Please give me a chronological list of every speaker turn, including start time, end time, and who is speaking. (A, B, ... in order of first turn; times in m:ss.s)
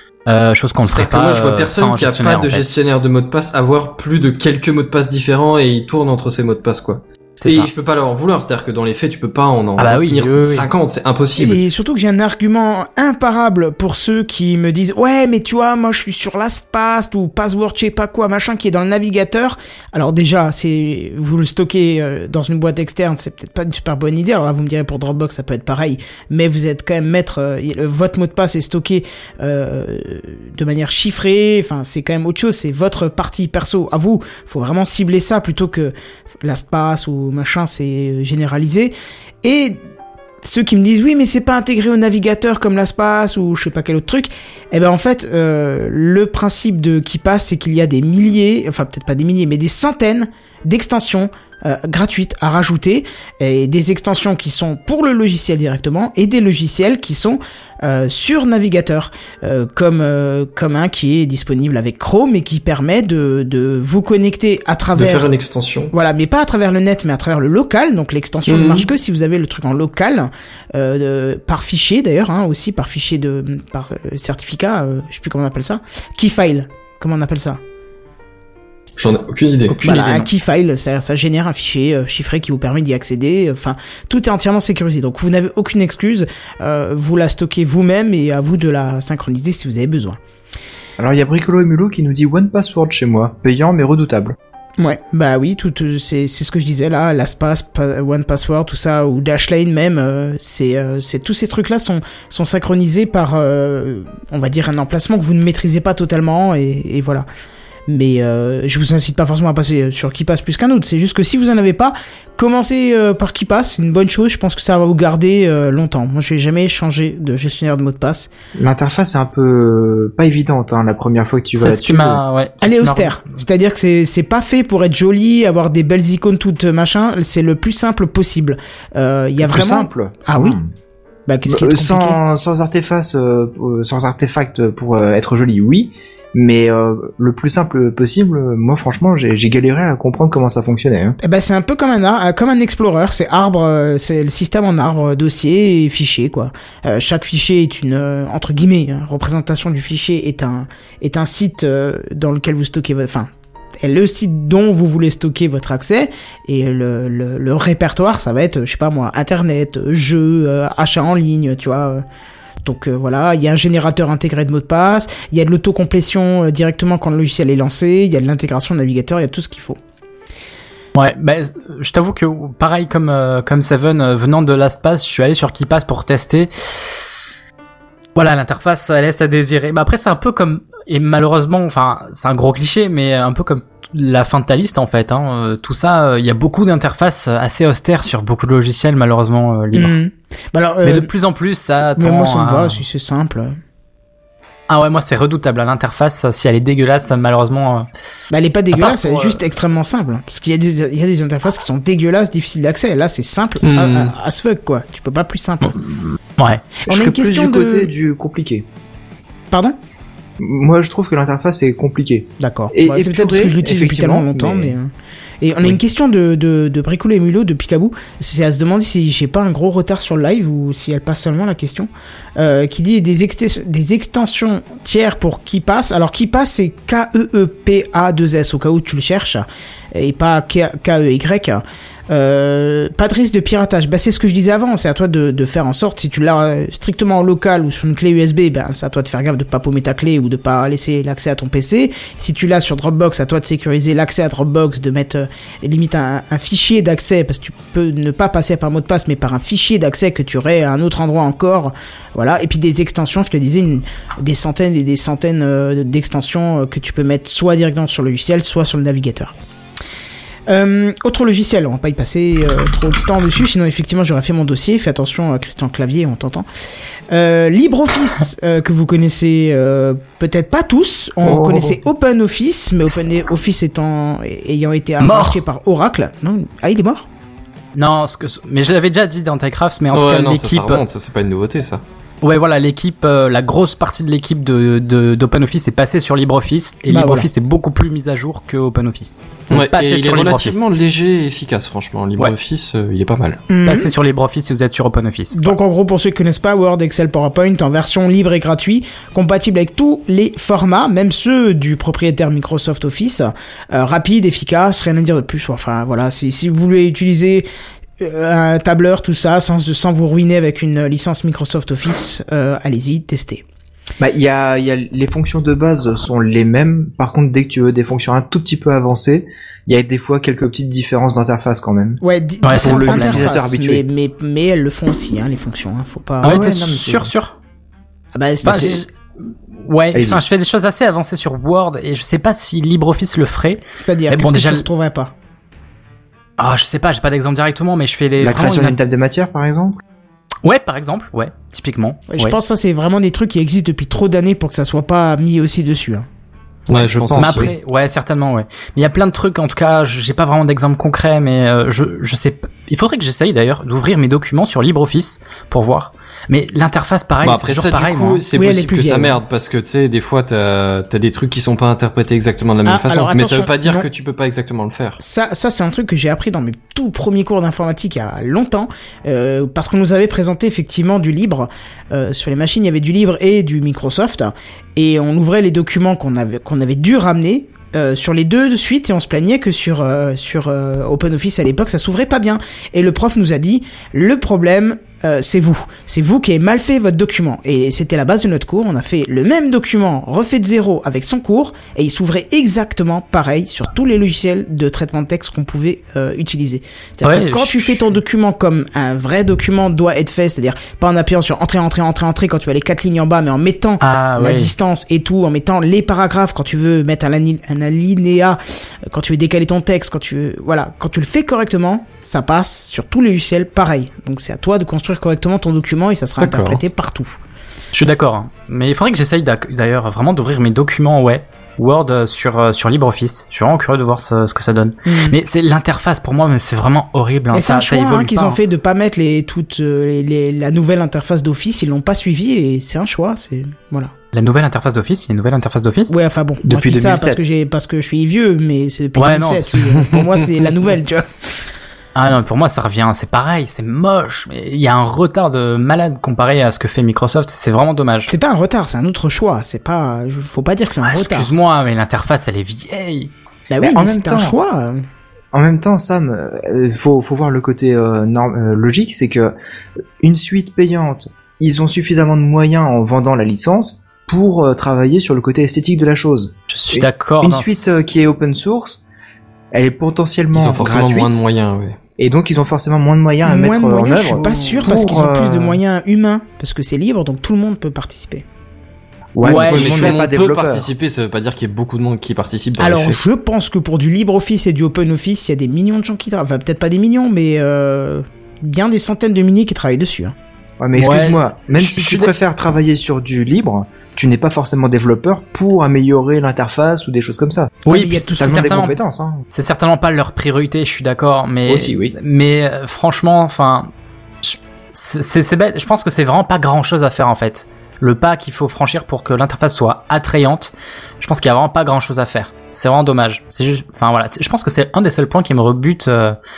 0:00.3-0:02.7 A
0:00.8-0:11.6 B
0:07.4-0:07.7 A
0:09.8-0:10.7 A
0:11.4-0:39.8 C
0:40.4-1:05.3 C
1:05.0-1:05.9 B
1:05.9-1:17.6 C
1:08.4-1:08.9 B
1:19.0-1:19.8 B
1:19.7-1:20.3 A
1:19.8-1:30.2 C
1:31.0-1:34.4 D
1:34.8-1:47.2 C
1:47.9-1:58.3 C
1:58.6-2:02.2 D
2:01.6-2:03.2 A
2:02.6-2:10.6 C
2:09.4-2:10.7 D
2:11.3-2:12.2 C
2:11.5-2:21.2 D
2:21.2-2:33.3 C
2:33.8-2:42.0 C
2:42.6-2:49.8 C
2:50.9-2:57.0 A
2:58.1-3:10.0 A
3:09.7-3:11.1 C
3:10.8-3:12.8 A
3:12.0-3:13.5 C
3:14.7-3:17.9 A
3:18.3-3:25.8 C
3:18.7-3:19.4 A
3:23.6-3:24.1 B
3:25.6-3:26.7 A
3:26.8-3:27.9 C
3:26.9-3:28.6 D
3:29.5-3:29.8 C
3:30.4-3:34.7 D
3:32.4-4:19.3 C
4:20.5-4:26.4 C
4:27.1-4:37.1 C
4:31.2-4:31.8 B
4:35.0-4:35.4 A
4:37.7-4:40.8 A
4:39.9-4:41.8 B
4:42.2-4:50.6 A
4:46.9-4:47.3 C
4:49.5-4:53.4 B
4:53.5-4:53.9 C
4:53.6-4:55.5 A
4:55.3-5:07.4 C
5:08.0-5:13.4 C
5:14.0-5:23.8 D
5:22.0-5:26.4 C
5:22.4-5:23.3 A
5:26.2-5:27.3 A
5:26.2-5:27.1 D
5:28.1-5:28.8 C
5:28.4-5:28.9 A
5:29.6-5:34.7 A
5:29.9-5:30.2 D
5:33.8-5:35.1 C
5:36.4-5:38.8 A
5:38.2-5:39.8 D
5:40.4-5:42.4 A
5:42.1-5:46.0 C
5:46.7-5:47.5 B
5:46.7-5:58.2 A
5:57.2-6:05.0 B
5:58.3-5:59.2 C
6:02.6-6:03.8 C
6:05.0-6:57.2 C
6:37.0-6:37.9 A
6:43.8-6:44.5 A
6:56.2-6:56.6 B
6:57.7-7:08.4 A
7:04.8-7:05.2 C
7:07.3-7:13.9 C
7:14.1-7:15.9 A
7:15.9-7:21.1 C
7:16.4-7:17.2 D
7:19.0-7:19.7 A
7:21.9-7:28.1 A
7:28.1-7:31.4 C
7:30.8-7:33.1 A
7:33.5-7:34.8 C
7:33.6-7:34.4 D
7:35.3-7:39.3 D
7:40.0-7:48.8 D
7:46.5-7:47.8 A
7:49.5-7:51.2 D
7:50.3-7:51.8 B
7:52.0-7:55.6 D
7:53.2-7:58.2 C
7:59.2-8:00.7 D
7:59.2-8:00.3 A
7:59.3-8:03.0 B
8:02.6-8:10.1 C
8:10.6-8:17.6 D
8:10.8-8:12.1 A
8:17.6-8:18.6 C
8:17.6-8:18.8 A
8:18.2-8:19.2 D
8:19.3-8:23.7 A
8:21.5-8:21.9 D
8:24.2-8:36.2 A